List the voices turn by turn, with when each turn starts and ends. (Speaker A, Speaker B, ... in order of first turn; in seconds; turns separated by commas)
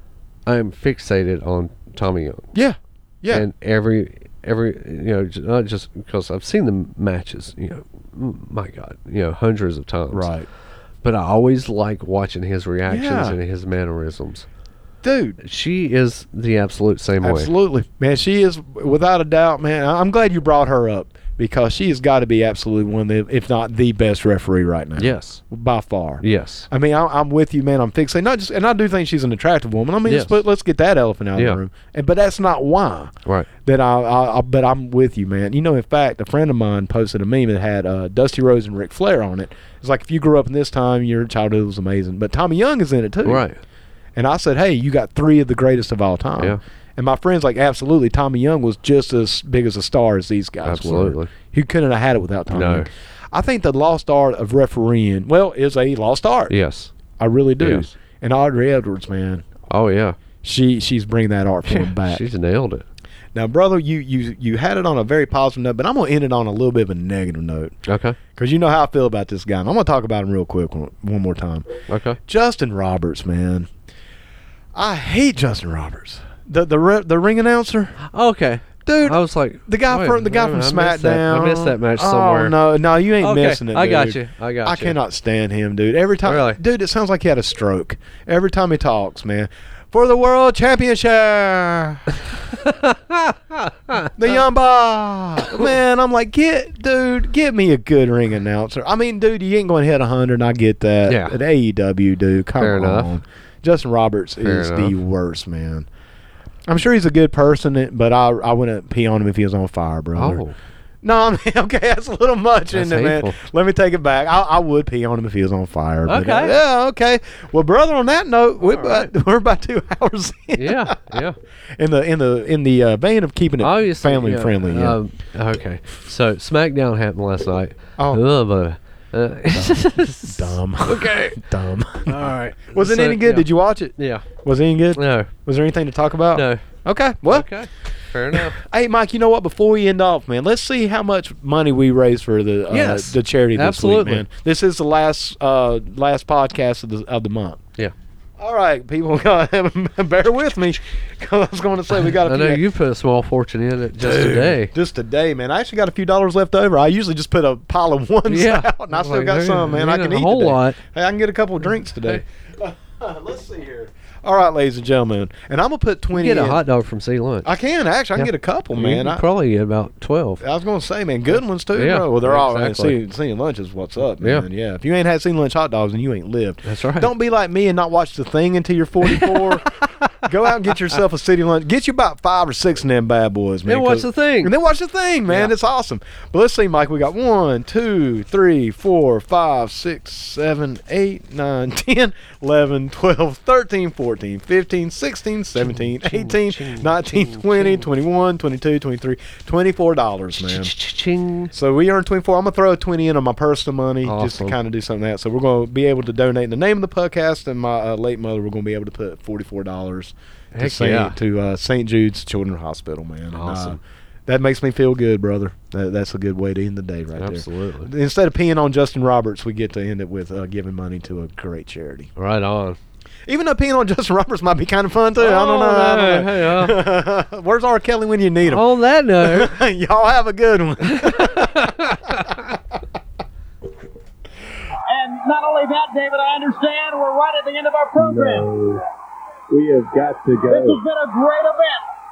Speaker A: 0.5-2.5, Speaker B: 2.5-3.5, Speaker A: 3.3-10.3, Speaker B: 10.1-10.5, Speaker A: 11.0-14.5, Speaker B: 12.9-13.4, Speaker B: 15.0-15.4, Speaker A: 15.4-17.5, Speaker B: 17.2-33.1, Speaker A: 25.0-25.4, Speaker A: 26.2-26.7, Speaker A: 30.1-30.4, Speaker B: 33.6-43.5, Speaker A: 43.2-43.6, Speaker B: 44.2-56.5, Speaker A: 50.6-51.3, Speaker A: 52.5-52.9, Speaker A: 56.5-56.9, Speaker B: 57.2-59.5, Speaker A: 57.6-57.9, Speaker A: 59.7-60.2, Speaker B: 60.4-62.2, Speaker A: 61.7-62.9, Speaker B: 63.3-67.8, Speaker A: 67.9-68.2, Speaker B: 68.4-71.7, Speaker A: 71.9-72.2, Speaker B: 72.2-73.7, Speaker B: 74.7-78.0, Speaker A: 78.0-82.6, Speaker B: 78.8-92.1, Speaker A: 83.2-85.0, Speaker A: 86.2-86.6, Speaker A: 92.5-94.3, Speaker B: 94.2-105.9, Speaker A: 101.1-101.4, Speaker A: 102.6-103.2, Speaker A: 104.4-105.0, Speaker B: 106.7-110.4, Speaker A: 110.2-110.5, Speaker B: 111.0-121.2, Speaker A: 112.7-113.4, Speaker A: 116.1-116.6, Speaker A: 118.6-119.1, Speaker A: 120.6-121.4, Speaker B: 121.8-125.0, Speaker A: 123.6-131.4, Speaker B: 128.0-128.2, Speaker B: 129.5-137.5, Speaker A: 132.1-134.3, Speaker A: 135.0-135.3, Speaker A: 136.3-136.6, Speaker A: 137.2-138.6, Speaker B: 138.3-147.6, Speaker A: 142.7-144.2, Speaker B: 148.4-152.7, Speaker A: 151.9-154.7, Speaker B: 154.0-166.6, Speaker A: 158.3-160.8, Speaker A: 166.1-167.5, Speaker B: 167.4-169.2, Speaker A: 168.2-170.4, Speaker B: 170.4-200.7, Speaker A: 171.7-173.0, Speaker A: 174.2-174.5, Speaker A: 176.7-177.1, Speaker A: 179.1-181.0, Speaker A: 183.7-184.5, Speaker A: 195.6-197.9, Speaker A: 200.3-201.5, Speaker B: 201.5-222.1, Speaker A: 204.1-204.6, Speaker A: 210.5-211.2, Speaker A: 213.3-213.8, Speaker A: 217.2-217.9, Speaker A: 222.2-222.8, Speaker B: 223.3-228.7, Speaker A: 225.2-226.8, Speaker A: 228.4-229.6, Speaker B: 229.2-232.6, Speaker A: 230.9-232.5, Speaker C: 234.9-238.5, Speaker D: 238.0-238.8, Speaker D: 239.5-240.8, Speaker C: 240.4-241.9